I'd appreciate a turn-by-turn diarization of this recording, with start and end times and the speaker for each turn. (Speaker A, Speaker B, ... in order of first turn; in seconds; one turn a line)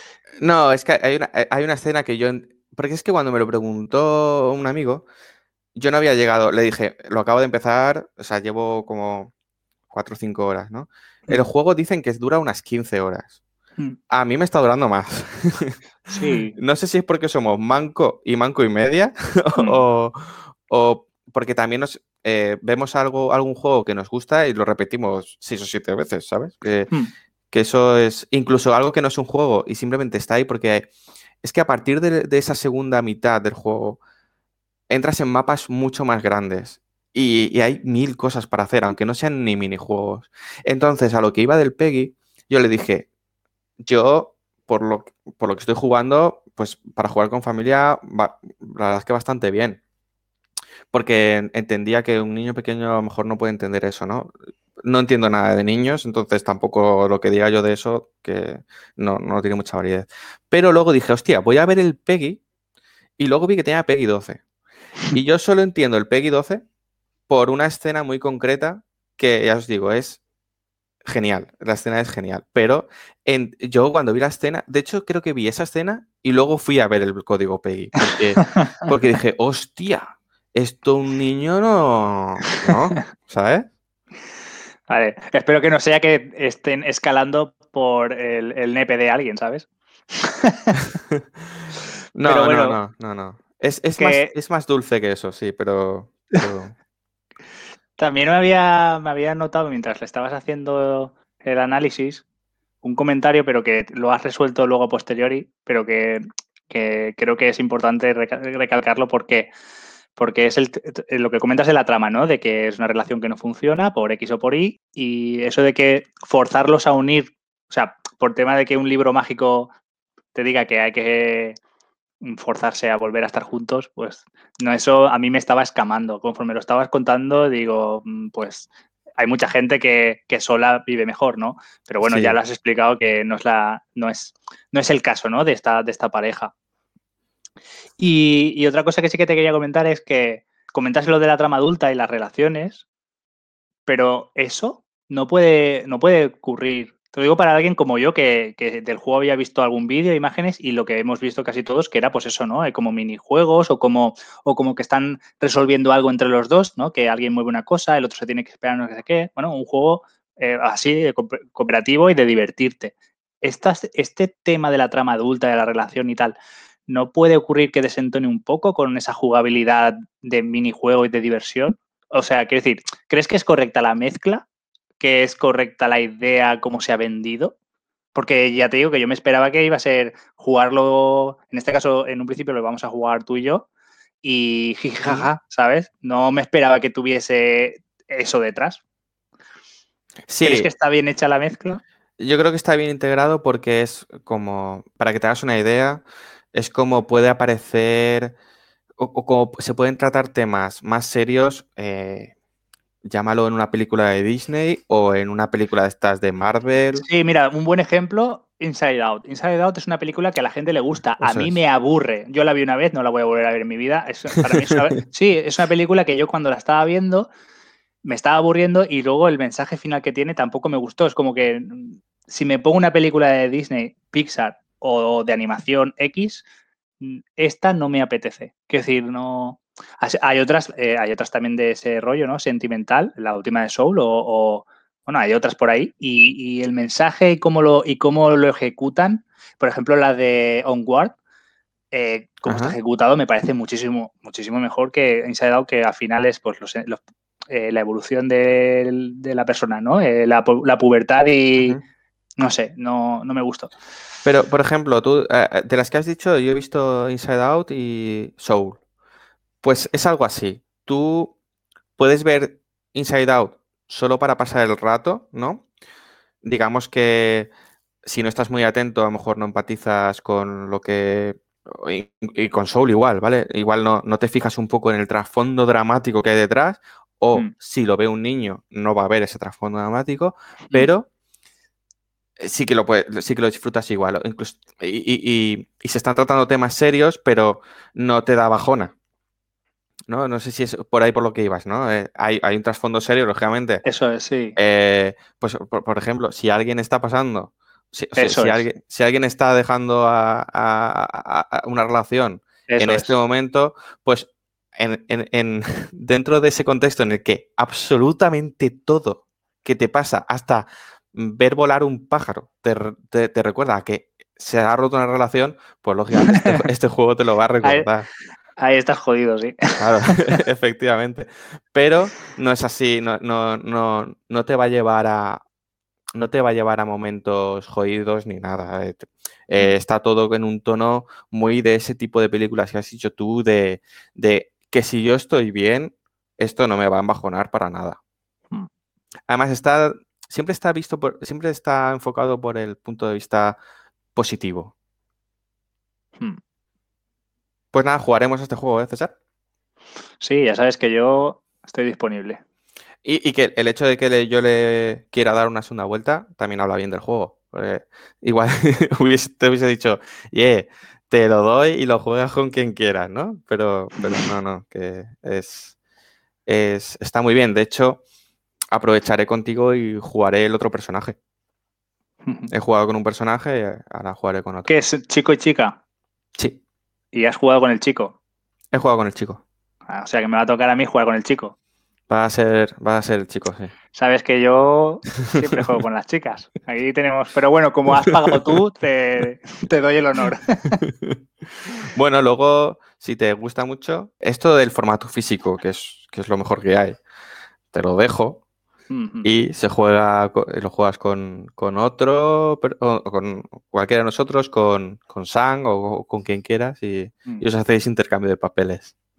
Speaker A: 0.4-5.1
Speaker A: 5.8-9.3
Speaker A: 9.9-13.3
Speaker A: 14.1-15.8
Speaker B: 16.1-16.6
Speaker A: 16.5-26.9
Speaker B: 19.6-19.8
Speaker A: 27.5-30.9
Speaker A: 31.4-34.0
Speaker A: 34.9-43.1
Speaker A: 43.8-49.8
Speaker A: 50.9-62.4
Speaker A: 63.2-64.4
Speaker A: 65.1-66.6
Speaker A: 67.3-70.2
Speaker A: 71.1-83.7
Speaker B: 84.9-90.8
Speaker A: 92.2-96.7
Speaker B: 92.2-92.8
Speaker B: 94.0-94.3
Speaker B: 98.0-102.2
Speaker B: 102.8-109.5
Speaker B: 110.2-119.7
Speaker B: 120.3-121.6
Speaker B: 122.2-136.5
Speaker A: 132.0-132.4
Speaker B: 138.0-142.8
Speaker B: 143.9-166.4
Speaker B: 166.9-174.5
Speaker B: 175.0-177.5
Speaker B: 178.1-183.7
Speaker B: 184.2-188.8
Speaker A: 185.0-185.3
Speaker A: 190.3-190.7
Speaker B: 190.4-191.8
Speaker A: 192.2-196.0
Speaker A: 196.5-198.3
Speaker A: 199.0-202.3
Speaker A: 203.1-207.0
Speaker B: 206.9-217.3
Speaker A: 211.2-211.5
Speaker B: 218.1-226.4
Speaker B: 227.0-241.1
Speaker B: 241.9-251.8
Speaker A: 242.5-242.8
Speaker B: 252.4-253.7
Speaker A: 254.2-258.8
Speaker A: 259.6-261.4
Speaker A: 262.0-265.6
Speaker A: 266.4-267.5
Speaker A: 268.1-281.1
Speaker A: 282.4-288.9
Speaker A: 290.1-293.8
Speaker B: 293.9-294.6
Speaker A: 294.6-318.1
Speaker B: 298.2-298.7
Speaker B: 302.7-303.1
Speaker B: 316.3-316.6
Speaker B: 317.6-317.9
Speaker B: 318.6-320.2
Speaker A: 319.8-325.4
Speaker A: 326.1-338.0
Speaker A: 339.3-343.6
Speaker A: 344.1-344.7
Speaker A: 347.7-349.1
Speaker B: 350.2-352.4
Speaker A: 353.0-365.7
Speaker A: 366.5-368.0
Speaker A: 368.7-371.2
Speaker A: 372.5-374.7
Speaker B: 374.7-375.8
Speaker B: 377.1-378.2
Speaker A: 378.7-379.4
Speaker B: 379.9-381.6
Speaker A: 382.1-383.7
Speaker B: 383.9-390.8
Speaker A: 390.7-391.2
Speaker A: 391.9-397.0
Speaker A: 397.7-398.4
Speaker B: 398.9-399.3
Speaker A: 399.2-408.9